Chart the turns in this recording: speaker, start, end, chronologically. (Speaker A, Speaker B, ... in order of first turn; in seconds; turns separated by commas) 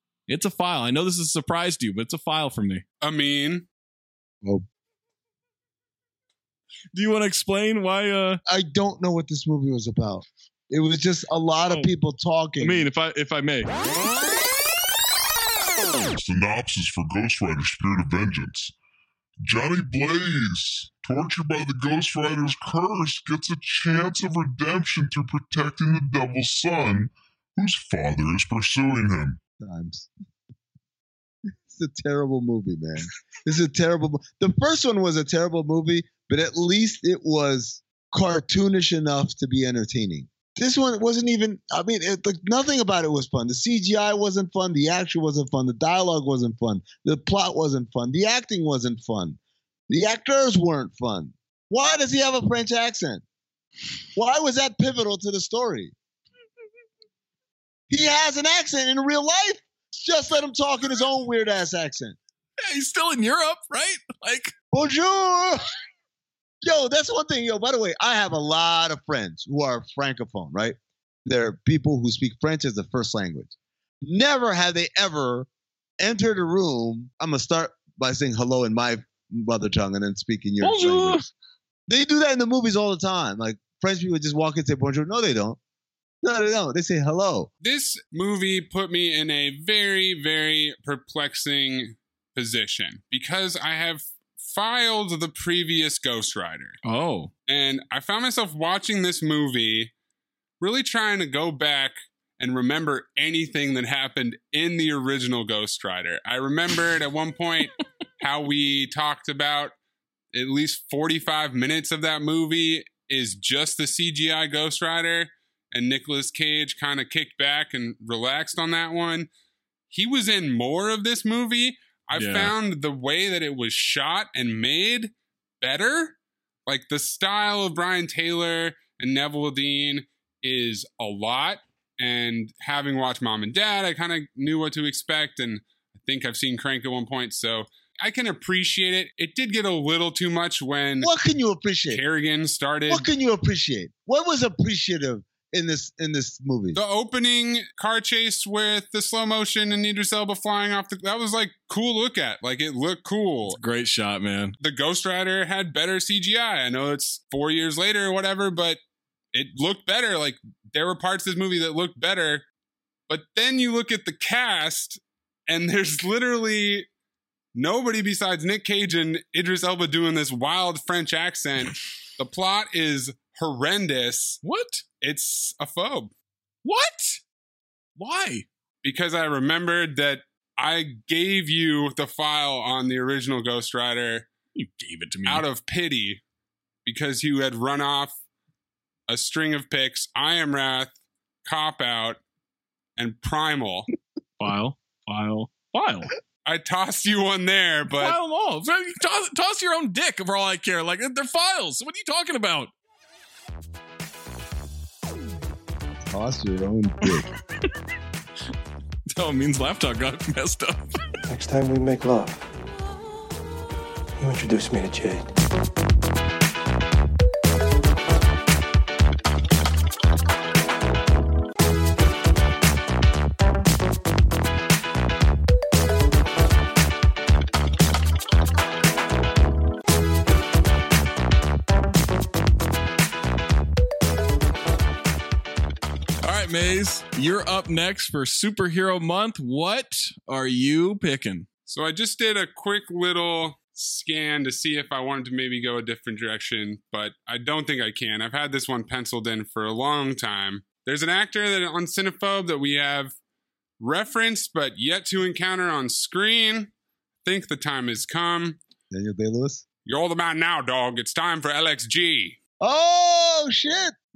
Speaker A: 0.3-2.8, Speaker B: 3.0-3.6, Speaker A: 6.9-8.4, Speaker C: 8.5-12.8, Speaker A: 12.6-13.7, Speaker D: 16.1-18.7, Speaker D: 19.4-29.4, Speaker C: 29.6-30.1, Speaker C: 31.5-49.4, Speaker C: 49.9-53.2, Speaker C: 54.1-55.9, Speaker C: 57.9-62.2, Speaker A: 62.6-64.5, Speaker C: 64.7-65.6, Speaker C: 66.6-75.5, Speaker C: 76.0-81.3, Speaker A: 80.6-81.2, Speaker C: 81.9-85.6, Speaker C: 86.2-87.5, Speaker B: 87.6-96.8, Speaker A: 96.8-97.3, Speaker B: 97.5-99.9, Speaker B: 100.6-109.7, Speaker B: 110.3-119.3, Speaker B: 119.9-141.1, Speaker A: 122.1-122.5, Speaker C: 141.0-142.0, Speaker B: 141.9-143.1, Speaker C: 142.9-146.8, Speaker B: 146.7-153.6, Speaker A: 153.5-154.5, Speaker B: 154.6-158.8, Speaker B: 159.3-162.4, Speaker B: 163.1-166.9, Speaker B: 167.5-174.4, Speaker A: 174.4-174.8, Speaker B: 175.0-176.1, Speaker A: 176.6-177.2, Speaker A: 178.0-178.4, Speaker B: 178.8-184.3, Speaker A: 184.5-185.4, Speaker B: 185.2-186.2, Speaker B: 186.8-188.2, Speaker B: 189.1-190.9, Speaker B: 191.4-192.2, Speaker B: 193.0-193.9, Speaker A: 194.4-196.1, Speaker B: 196.4-198.2, Speaker A: 197.9-202.7, Speaker C: 205.9-207.3, Speaker A: 209.1-210.8, Speaker E: 211.3-212.4, Speaker E: 214.2-215.3, Speaker A: 236.2-241.5, Speaker B: 241.7-253.1, Speaker B: 253.8-256.7, Speaker B: 257.2-258.6, Speaker C: 258.9-259.6, Speaker B: 259.8-262.4, Speaker C: 262.6-263.9